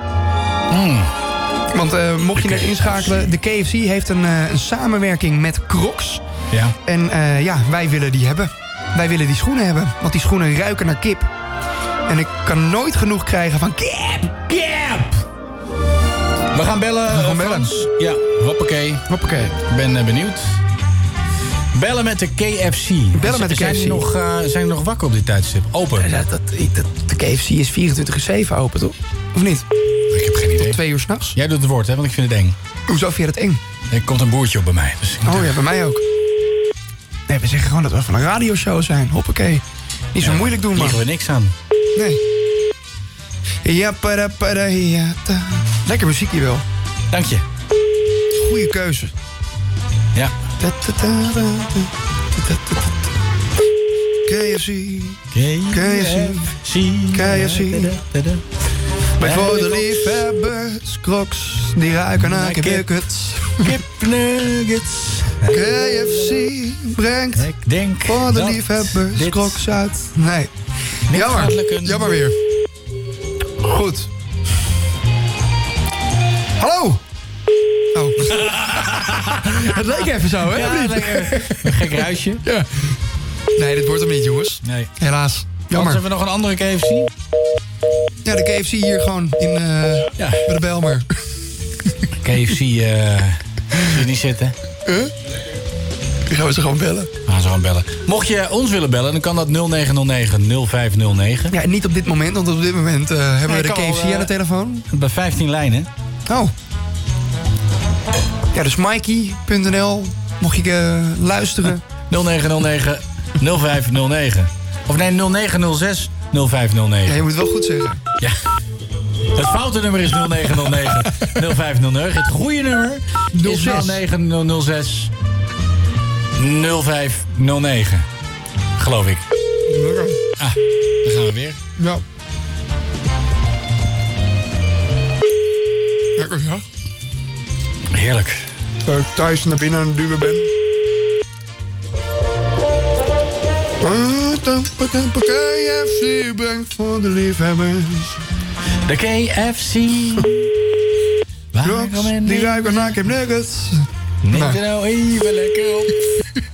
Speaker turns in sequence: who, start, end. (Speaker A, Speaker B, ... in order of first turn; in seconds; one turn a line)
Speaker A: 0.7-1.1
Speaker B: 1.7-6.2
Speaker A: 2.4-3.3
Speaker B: 6.8-11.3
Speaker B: 12.1-14.4
Speaker A: 14.5-15.2
Speaker A: 16.5-19.1
Speaker B: 17.1-17.7
Speaker B: 19.1-19.6
Speaker A: 19.6-20.6
Speaker A: 21.7-26.1
Speaker B: 23.1-24.1
Speaker B: 26.0-29.7
Speaker A: 30.1-30.8
Speaker B: 30.6-31.4
Speaker A: 31.3-32.6
Speaker B: 32.9-33.6
Speaker A: 33.9-35.6
Speaker B: 35.2-36.0
Speaker B: 37.3-39.6
Speaker B: 40.1-41.0
Speaker A: 40.2-41.5
Speaker B: 43.6-46.6
Speaker A: 47.1-47.4
Speaker B: 48.4-49.1
Speaker B: 50.6-53.1
Speaker B: 54.3-56.5
Speaker A: 55.3-58.4
Speaker B: 57.1-58.0
Speaker B: 59.2-63.8
Speaker A: 59.2-60.2
Speaker A: 62.2-62.9
Speaker A: 63.6-66.3
Speaker B: 65.5-67.5
Speaker A: 67.4-69.6
Speaker B: 68.0-70.5
Speaker A: 71.1-72.2
Speaker B: 71.1-72.4
Speaker B: 73.6-74.1
Speaker B: 76.6-77.0
Speaker B: 77.9-78.4
Speaker A: 78.3-79.8
Speaker B: 79.5-81.8
Speaker A: 80.3-82.4
Speaker B: 82.4-82.7
Speaker B: 83.5-86.0
Speaker A: 84.6-84.9
Speaker A: 85.7-87.1
Speaker B: 88.2-91.1
Speaker A: 90.2-90.5
Speaker A: 92.2-94.5
Speaker B: 94.9-95.1
Speaker B: 96.3-97.1
Speaker A: 97.3-101.5
Speaker B: 101.5-104.8
Speaker A: 103.5-104.3
Speaker A: 104.9-105.9
Speaker B: 106.3-106.5
Speaker B: 108.5-111.8
Speaker A: 112.1-117.3
Speaker B: 117.1-118.0
Speaker A: 119.3-125.1
Speaker B: 123.3-124.0
Speaker A: 126.4-128.1
Speaker A: 128.8-129.2
Speaker B: 129.7-130.2
Speaker A: 130.4-131.6
Speaker B: 131.8-132.0
Speaker B: 136.2-136.6
Speaker A: 137.9-138.4
Speaker B: 138.9-140.5
Speaker B: 143.8-148.2
Speaker A: 148.9-150.5
Speaker A: 151.5-153.0
Speaker B: 151.6-154.6
Speaker A: 154.2-156.0